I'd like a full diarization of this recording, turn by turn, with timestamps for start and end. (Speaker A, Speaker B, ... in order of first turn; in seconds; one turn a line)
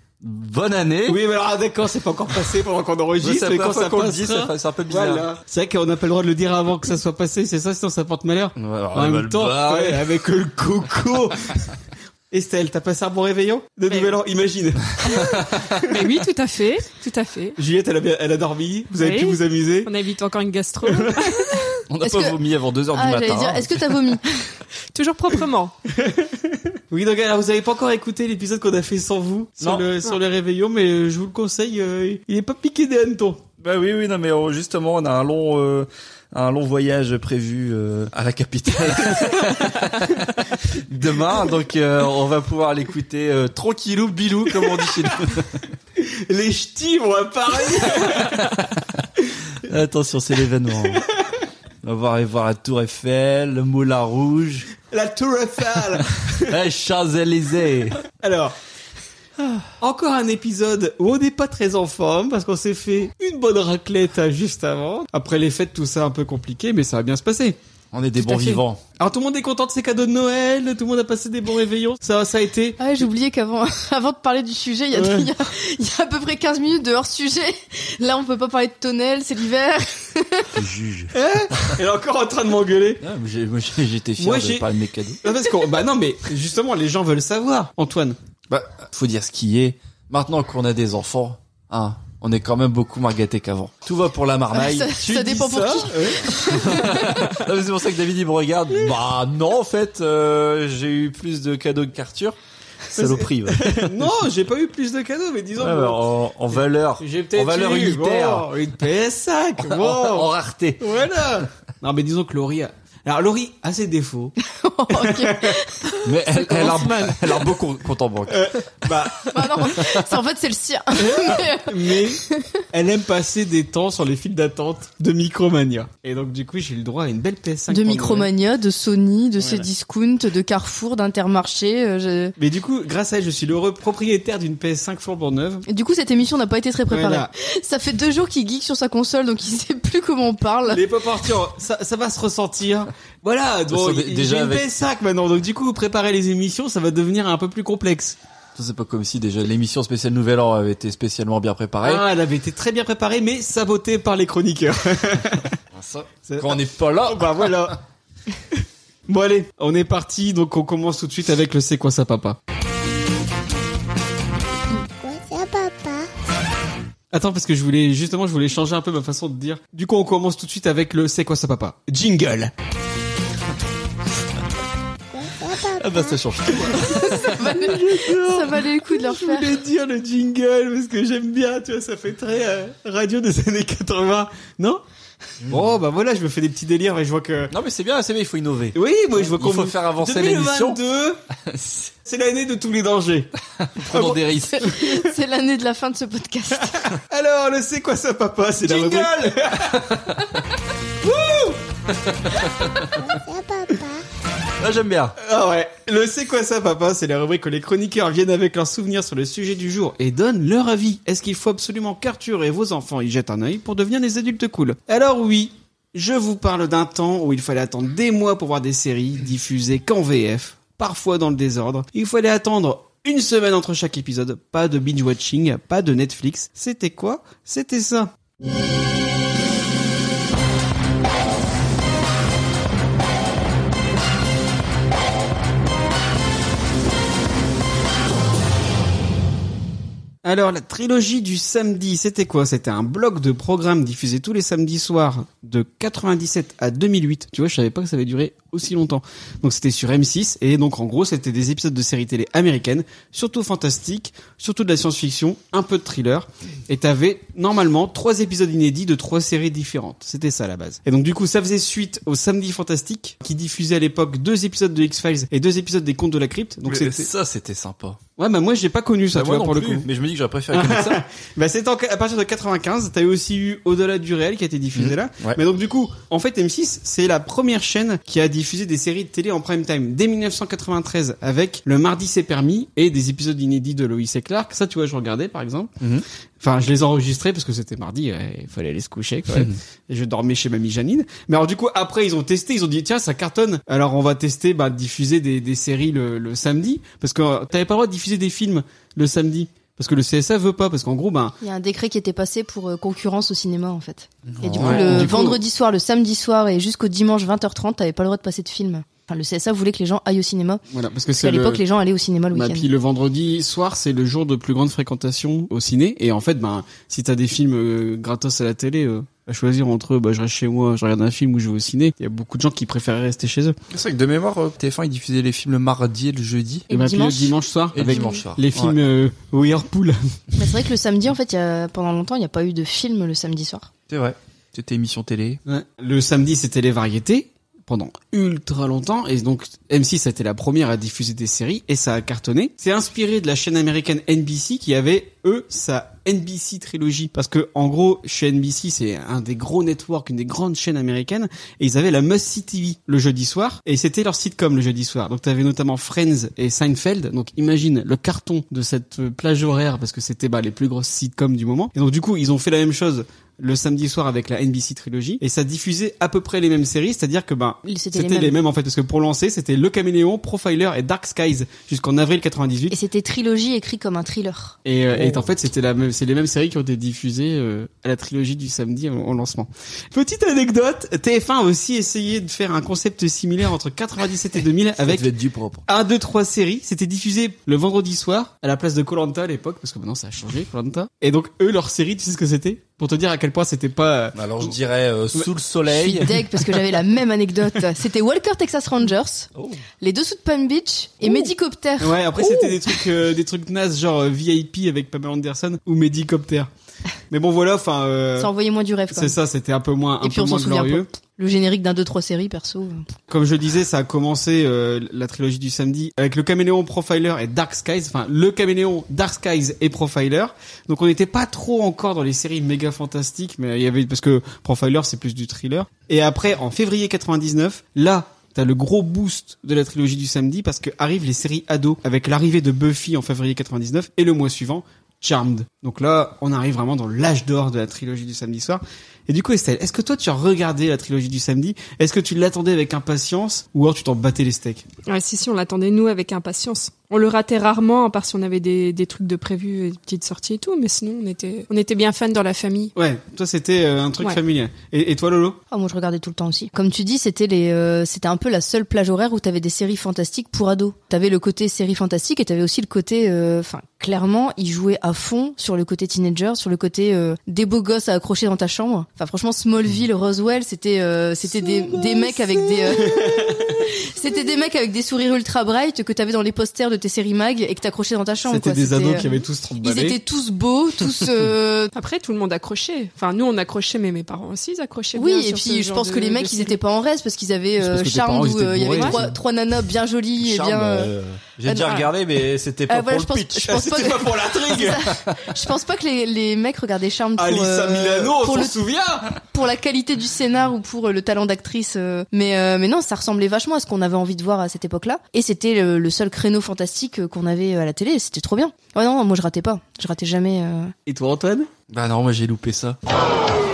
Speaker A: 0.2-1.2
Speaker B: 1.1-11.6
Speaker A: 3.2-5.3
Speaker A: 8.6-10.1
Speaker B: 12.3-15.9
Speaker C: 15.1-17.6
Speaker B: 17.6-19.9
Speaker C: 19.0-21.8
Speaker B: 20.8-21.4
Speaker A: 21.9-24.0
Speaker D: 22.0-22.4
Speaker D: 22.9-24.2
Speaker C: 24.9-25.7
Speaker B: 25.9-33.4
Speaker A: 29.6-29.9
Speaker A: 33.6-45.6
Speaker B: 44.6-45.3
Speaker B: 46.0-48.4
Speaker A: 48.0-49.0
Speaker A: 49.6-51.0
Speaker B: 50.9-51.2
Speaker A: 51.8-54.7
Speaker B: 54.9-56.6
Speaker A: 56.4-58.0
Speaker B: 58.1-58.5
Speaker A: 59.4-59.7
Speaker B: 59.8-67.6
Speaker A: 67.9-68.8
Speaker B: 68.2-72.8
Speaker D: 72.8-80.6
Speaker B: 74.9-75.3
Speaker A: 80.5-81.8
Speaker B: 81.1-83.0
Speaker A: 83.0-85.2
Speaker B: 84.2-84.7
Speaker B: 85.2-88.2
Speaker A: 88.5-95.0
Speaker D: 94.5-97.1
Speaker B: 95.0-96.7
Speaker A: 96.5-102.3
Speaker A: 102.9-104.0
Speaker B: 102.9-114.3
Speaker A: 105.6-108.5
Speaker A: 109.6-110.9
Speaker D: 114.4-116.0
Speaker B: 114.9-115.6
Speaker A: 116.0-118.5
Speaker C: 116.5-117.2
Speaker B: 118.3-119.3
Speaker D: 119.2-122.6
Speaker B: 121.0-128.3
Speaker D: 127.7-132.3
Speaker B: 132.4-135.6
Speaker D: 135.7-140.8
Speaker B: 136.9-137.3
Speaker B: 140.7-148.2
Speaker A: 143.7-144.6
Speaker A: 148.6-152.1
Speaker B: 151.8-155.5
Speaker A: 155.7-157.8
Speaker B: 156.3-157.8
Speaker B: 158.5-162.4
Speaker E: 164.7-166.1
Speaker B: 167.1-172.5
Speaker E: 175.1-176.1
Speaker A: 175.8-178.2
Speaker D: 176.7-179.5
Speaker B: 177.5-184.8
Speaker B: 185.4-187.5
Speaker A: 187.5-190.8
Speaker B: 188.7-191.2
Speaker A: 191.5-191.8
Speaker B: 191.8-193.3
Speaker A: 193.6-194.7
Speaker B: 193.9-195.1
Speaker D: 194.6-196.9
Speaker B: 197.0-200.0
Speaker A: 198.6-200.4
Speaker B: 201.0-201.6
Speaker A: 202.0-202.9
Speaker E: 203.0-204.0
Speaker A: 204.6-205.2
Speaker B: 205.2-228.1
Speaker B: 240.2-267.1
Speaker A: 266.7-268.0
Speaker B: 268.2-269.9
Speaker A: 269.1-271.0
Speaker B: 270.5-285.8
Speaker A: 274.8-275.4
Speaker B: 286.4-301.4
Speaker D: 301.4-310.6
Speaker A: 304.3-305.2
Speaker B: 304.6-305.4
Speaker B: 310.7-311.6
Speaker D: 311.2-312.7
Speaker B: 312.3-323.6
Speaker A: 323.7-326.7
Speaker D: 326.7-327.3
Speaker B: 326.7-330.0
Speaker A: 327.7-328.8
Speaker D: 330.4-333.7
Speaker A: 333.9-335.4
Speaker B: 335.4-372.8
Speaker D: 367.6-368.4
Speaker D: 372.7-374.6
Speaker B: 374.6-385.1
Speaker A: 384.8-385.6
Speaker B: 385.7-394.6
Speaker A: 394.1-396.4
Speaker D: 395.7-399.3
Speaker A: 399.4-399.6
Speaker D: 399.8-402.7
Speaker B: 401.8-406.5
Speaker B: 407.1-408.3
Speaker D: 408.2-409.1
Speaker B: 408.9-410.9
Speaker D: 410.0-412.8
Speaker B: 413.1-444.7
Speaker C: 444.9-452.7
Speaker B: 452.7-455.4
Speaker D: 455.5-479.0
Speaker B: 471.7-473.6
Speaker B: 478.2-480.0
Speaker D: 479.6-481.7
Speaker C: 481.7-486.6
Speaker D: 484.9-490.9
Speaker B: 487.6-489.2
Speaker A: 490.2-493.7
Speaker D: 491.4-491.9
Speaker D: 492.7-498.6
Speaker B: 493.5-494.9
Speaker A: 494.9-495.2
Speaker B: 497.2-499.1
Speaker D: 499.1-510.7
Speaker B: 510.9-511.5
Speaker A: 511.7-512.8